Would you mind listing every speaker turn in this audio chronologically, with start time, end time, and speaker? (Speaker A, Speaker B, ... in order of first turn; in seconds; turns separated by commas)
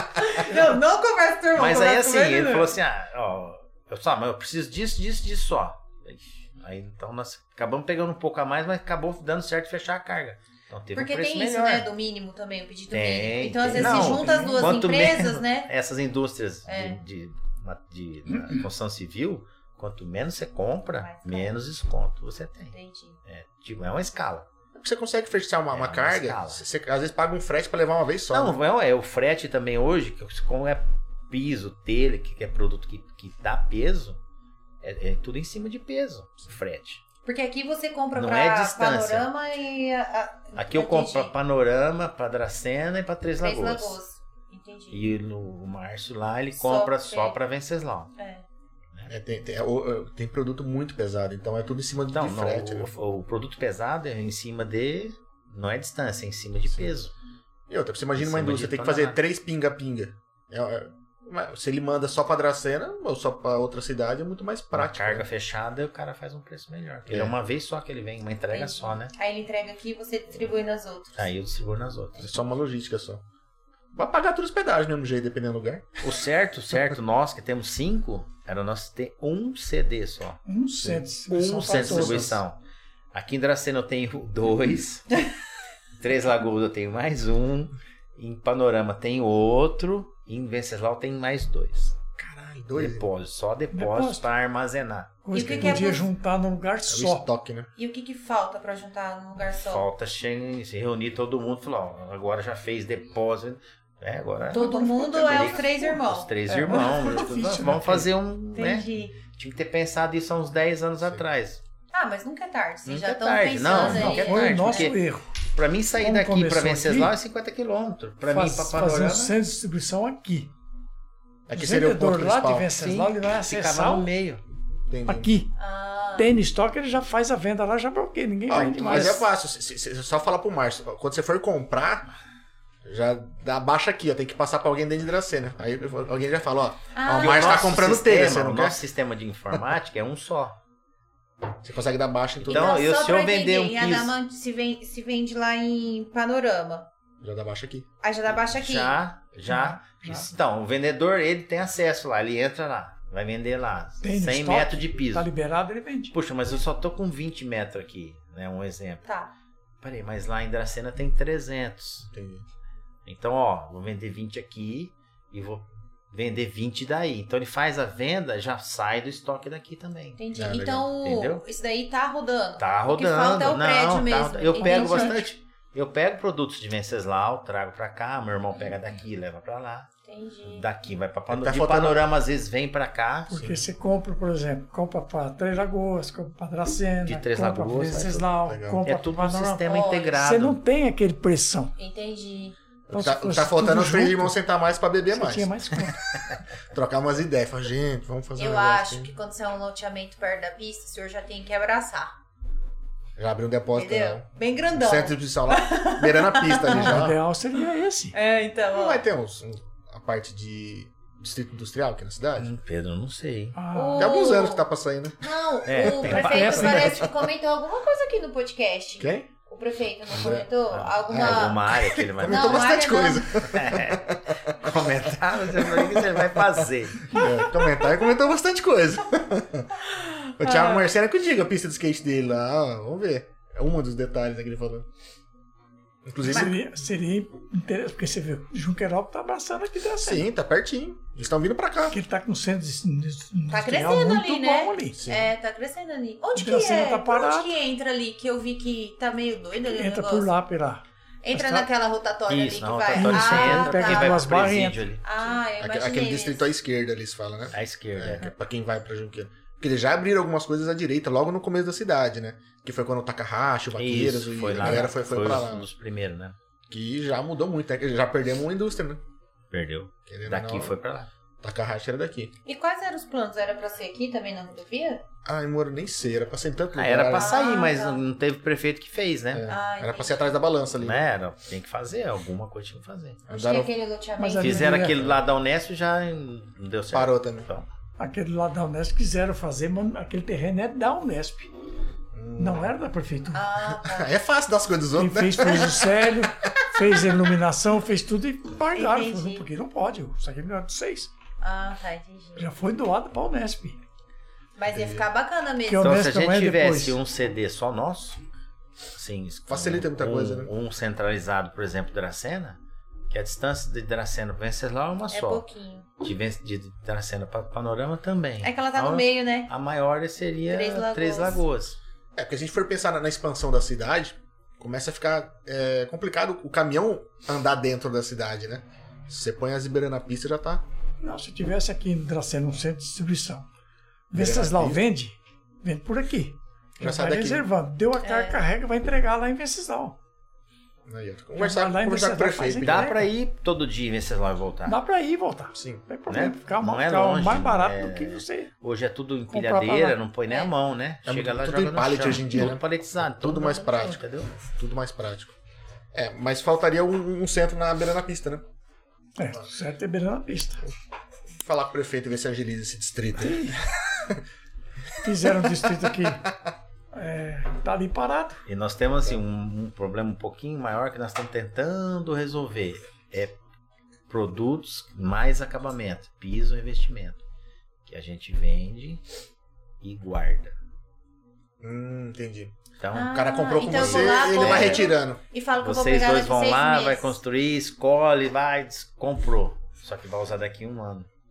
Speaker A: 0.2-2.7, Speaker B: 1.5-11.9, Speaker A: 10.9-15.7, Speaker B: 12.9-24.5, Speaker C: 13.7-14.7, Speaker A: 16.7-17.0, Speaker C: 18.3-18.6, Speaker A: 20.9-21.6, Speaker A: 22.7-23.2, Speaker D: 24.7-28.6, Speaker B: 25.7-26.6, Speaker B: 28.3-34.2, Speaker B: 34.8-37.0, Speaker A: 37.2-41.3, Speaker B: 38.1-39.3, Speaker B: 40.6-44.0, Speaker A: 43.4-45.2, Speaker B: 44.9-48.1, Speaker A: 46.5-47.4, Speaker A: 48.2-48.5, Speaker D: 49.1-52.9, Speaker B: 52.1-57.1, Speaker D: 57.7-65.3, Speaker B: 58.2-59.2, Speaker B: 64.7-69.1, Speaker D: 67.1-67.3, Speaker A: 68.5-71.3, Speaker B: 71.2-72.3, Speaker D: 72.2-73.2, Speaker D: 73.9-75.9, Speaker B: 76.0-80.4, Speaker C: 80.5-82.4, Speaker B: 81.2-82.6, Speaker D: 81.6-82.4, Speaker B: 83.1-85.2, Speaker B: 86.0-92.0, Speaker D: 92.2-93.1, Speaker B: 92.7-95.2, Speaker C: 93.7-94.2, Speaker C: 95.2-97.2, Speaker A: 95.3-96.1, Speaker D: 96.9-97.7, Speaker A: 97.8-99.8, Speaker B: 99.6-111.6, Speaker A: 104.5-106.3, Speaker C: 104.6-105.0, Speaker D: 105.1-105.6, Speaker C: 106.5-108.1, Speaker A: 108.5-109.1, Speaker A: 111.9-114.9, Speaker B: 112.8-119.4, Speaker C: 113.7-115.3, Speaker C: 116.0-117.1, Speaker C: 118.3-120.5, Speaker D: 121.5-122.7, Speaker C: 121.5-124.1, Speaker B: 122.8-124.4, Speaker D: 124.9-125.3, Speaker C: 125.1-125.5, Speaker A: 125.6-126.3, Speaker C: 126.2-129.2, Speaker D: 128.5-132.1, Speaker B: 128.5-129.2, Speaker D: 132.8-138.8, Speaker A: 136.9-137.7, Speaker B: 137.1-140.6, Speaker D: 141.6-142.8, Speaker B: 142.4-144.1, Speaker A: 142.4-146.9, Speaker D: 147.2-147.9, Speaker A: 148.0-149.0, Speaker B: 148.4-155.3, Speaker C: 149.5-150.3, Speaker C: 154.0-156.1, Speaker B: 156.1-159.1, Speaker A: 159.1-159.3, Speaker B: 159.8-162.1, Speaker D: 162.1-162.4, Speaker B: 163.1-170.2, Speaker A: 170.2-175.3, Speaker D: 170.3-170.9, Speaker B: 170.9-171.4, Speaker B: 172.6-179.9, Speaker C: 174.6-175.2, Speaker A: 180.1-180.6, Speaker B: 180.4-183.3, Speaker D: 181.3-182.1, Speaker C: 183.3-191.7, Speaker D: 183.3-183.6, Speaker B: 187.1-188.3, Speaker D: 188.4-188.8, Speaker B: 188.8-190.6, Speaker A: 189.6-190.2, Speaker A: 191.8-192.6, Speaker D: 192.9-195.5, Speaker C: 192.9-194.3, Speaker C: 195.1-196.0, Speaker D: 196.7-199.1, Speaker A: 198.4-202.1, Speaker D: 203.2-207.2, Speaker A: 203.7-207.0, Speaker C: 206.7-208.2, Speaker A: 208.1-209.0, Speaker D: 208.7-212.5, Speaker B: 212.4-213.6, Speaker C: 213.5-214.3, Speaker A: 213.7-214.7, Speaker D: 213.9-215.2, Speaker A: 215.2-223.4, Speaker B: 215.6-217.1, Speaker C: 216.0-217.0, Speaker D: 219.0-219.3, Speaker D: 220.1-220.5, Speaker B: 220.7-222.8, Speaker D: 221.1-229.7, Speaker B: 223.4-227.2, Speaker A: 227.2-227.8, Speaker A: 229.8-230.9, Speaker D: 230.4-234.8, Speaker D: 236.1-236.5, Speaker C: 236.2-240.3, Speaker D: 240.0-242.0, Speaker C: 241.9-245.0, Speaker A: 243.5-250.3, Speaker D: 244.9-245.3, Speaker C: 246.3-247.5, Speaker C: 249.6-250.8, Speaker A: 251.2-256.5, Speaker C: 251.3-251.7, Speaker B: 252.3-255.3, Speaker C: 252.9-254.9, Speaker D: 255.6-265.7, Speaker B: 257.5-258.3, Speaker B: 263.7-266.4, Speaker D: 266.7-269.0, Speaker B: 269.5-271.1, Speaker D: 270.1-270.7, Speaker D: 271.4-272.3, Speaker A: 272.4-275.0, Speaker D: 275.2-277.4, Speaker B: 276.7-279.5, Speaker A: 277.1-278.0, Speaker D: 279.3-281.1, Speaker A: 279.5-280.2, Speaker B: 280.8-283.2, Speaker D: 283.3-283.7, Speaker A: 283.3-284.8, Speaker C: 284.2-285.1, Speaker B: 284.4-287.7, Speaker D: 284.9-285.2, Speaker D: 286.9-287.5, Speaker C: 288.0-291.5, Speaker D: 292.1-292.7, Speaker C: 292.4-293.4, Speaker A: 293.3-294.1, Speaker D: 293.7-297.0, Speaker C: 294.9-301.1, Speaker A: 298.7-299.5, Speaker A: 301.4-302.5, Speaker C: 302.4-303.8, Speaker A: 304.6-305.9, Speaker D: 304.7-305.1, Speaker C: 305.6-307.0, Speaker B: 305.8-308.2, Speaker B: 308.9-315.4, Speaker D: 309.5-310.5, Speaker A: 315.1-315.9, Speaker B: 316.0-321.8, Speaker A: 318.4-319.5, Speaker A: 320.5-321.4, Speaker D: 322.1-330.6, Speaker C: 331.0-333.5, Speaker C: 334.1-340.0, Speaker D: 334.1-334.8, Speaker D: 336.8-337.4, Speaker A: 338.0-338.4, Speaker D: 340.9-342.9, Speaker C: 341.4-343.1, Speaker B: 342.6-344.8, Speaker C: 344.6-348.5, Speaker D: 345.6-345.8, Speaker B: 346.1-354.3, Speaker C: 349.3-350.0, Speaker A: 350.3-350.5, Speaker D: 351.1-355.3, Speaker D: 355.9-358.4, Speaker C: 359.2-360.7, Speaker D: 361.4-364.2, Speaker C: 363.2-363.6, Speaker C: 365.0-366.3, Speaker D: 365.4-366.3, Speaker C: 366.9-368.4, Speaker B: 368.4-373.4, Speaker B: 374.1-377.2, Speaker B: 377.9-379.0, Speaker B: 379.8-380.5, Speaker D: 381.6-382.5, Speaker B: 382.8-384.9, Speaker A: 382.9-387.2, Speaker D: 383.1-385.2, Speaker B: 385.6-391.1